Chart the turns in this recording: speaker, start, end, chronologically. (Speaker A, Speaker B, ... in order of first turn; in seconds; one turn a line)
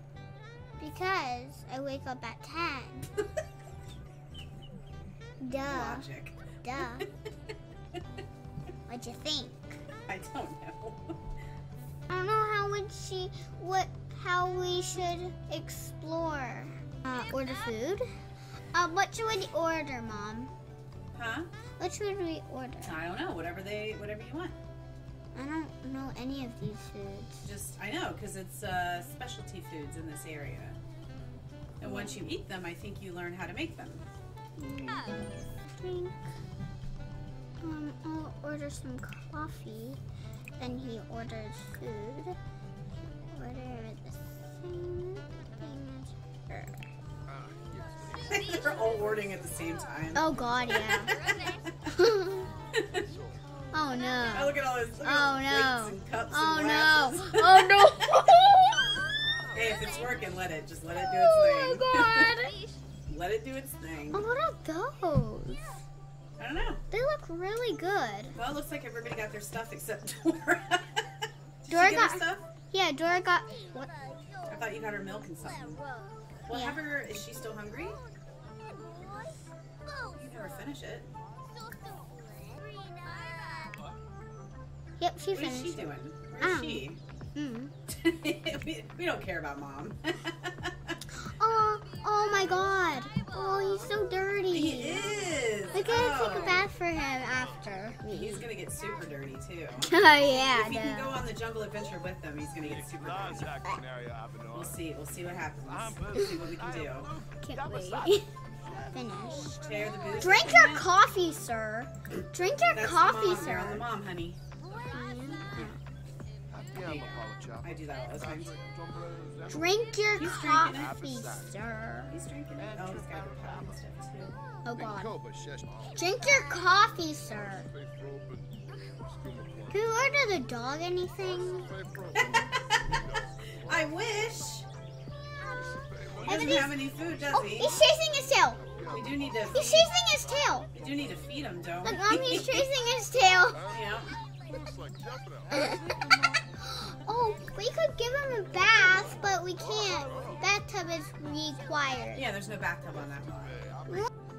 Speaker A: 0.8-3.1
Speaker A: 5.4-6.1
Speaker B: 5.6-6.4
Speaker A: 6.6-7.1
Speaker A: 8.9-9.8
Speaker B: 10.1-11.2
Speaker A: 12.1-18.1
Speaker A: 18.7-20.5
Speaker B: 21.1-21.5
Speaker A: 21.8-23.0
Speaker B: 22.8-24.6
Speaker A: 25.4-27.5
Speaker B: 27.4-30.8
Speaker B: 31.8-34.1
Speaker A: 31.8-32.2
Speaker A: 34.6-36.2
Speaker A: 37.6-40.0
Speaker A: 40.6-42.4
Speaker A: 43.3-46.9
Speaker B: 48.2-51.7
Speaker A: 50.1-51.2
Speaker A: 51.9-52.5
Speaker B: 52.8-53.1
Speaker A: 53.7-59.0
Speaker B: 54.3-58.0
Speaker B: 59.5-62.4
Speaker A: 60.9-62.6
Speaker B: 63.1-64.2
Speaker A: 64.1-65.8
Speaker B: 66.4-66.8
Speaker A: 66.9-68.4
Speaker B: 68.3-71.1
Speaker B: 71.6-72.4
Speaker A: 71.7-74.0
Speaker B: 74.5-75.8
Speaker B: 76.5-78.0
Speaker A: 76.5-76.9
Speaker A: 78.8-79.3
Speaker B: 80.1-81.1
Speaker A: 82.3-83.8
Speaker A: 85.0-87.7
Speaker B: 85.3-87.0
Speaker B: 87.9-91.0
Speaker A: 91.2-95.1
Speaker B: 94.5-96.7
Speaker A: 95.7-98.5
Speaker B: 98.1-103.6
Speaker A: 99.8-101.2
Speaker B: 104.5-107.1
Speaker A: 107.4-108.3
Speaker A: 108.9-109.7
Speaker B: 109.6-110.9
Speaker A: 110.2-113.8
Speaker B: 112.7-114.4
Speaker A: 114.9-115.8
Speaker B: 116.7-118.6
Speaker A: 119.5-122.1
Speaker B: 120.2-121.0
Speaker B: 122.1-124.4
Speaker A: 124.6-125.2
Speaker A: 125.9-127.7
Speaker A: 129.7-131.7
Speaker B: 132.1-133.0
Speaker B: 133.6-134.7
Speaker A: 135.6-138.6
Speaker B: 136.2-137.7
Speaker B: 138.9-139.9
Speaker A: 139.5-140.7
Speaker B: 140.8-142.7
Speaker A: 141.8-143.7
Speaker B: 143.7-144.2
Speaker A: 145.5-152.3
Speaker B: 152.1-153.7